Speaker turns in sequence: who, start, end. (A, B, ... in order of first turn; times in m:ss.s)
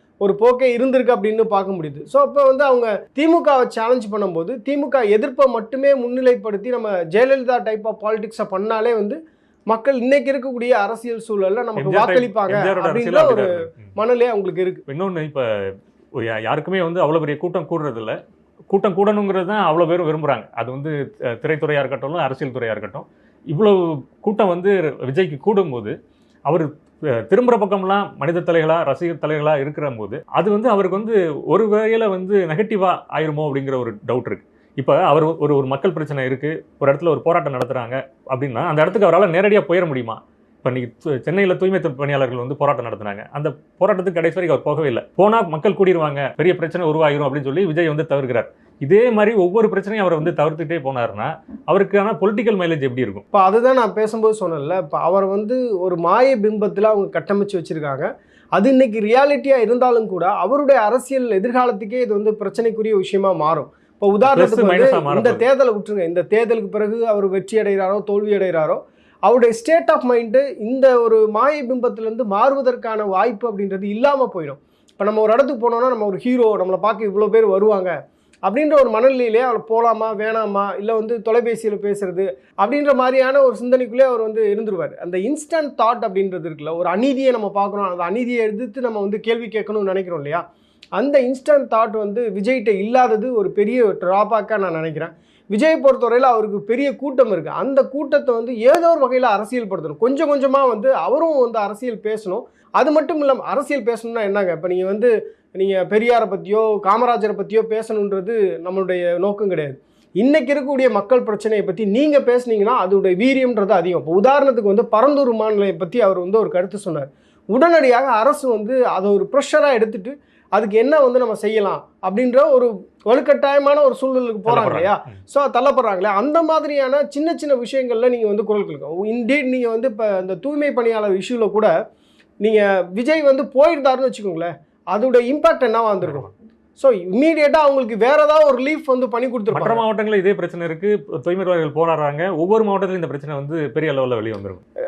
0:00.2-0:14.8 A
0:11.8-0:13.8 B
0:14.9-0:15.4 B
0:16.2-0:18.2 B
0:18.7-0:25.9 B
0:26.5-0:53.2 B
0:53.3-1:17.9 A
1:04.2-1:05.4 B
1:18.4-1:30.4 A
1:31.0-2:11.7 A
2:04.4-2:05.2 B
2:12.4-2:19.8 A
2:16.0-2:16.3 B
2:19.5-2:24.6 B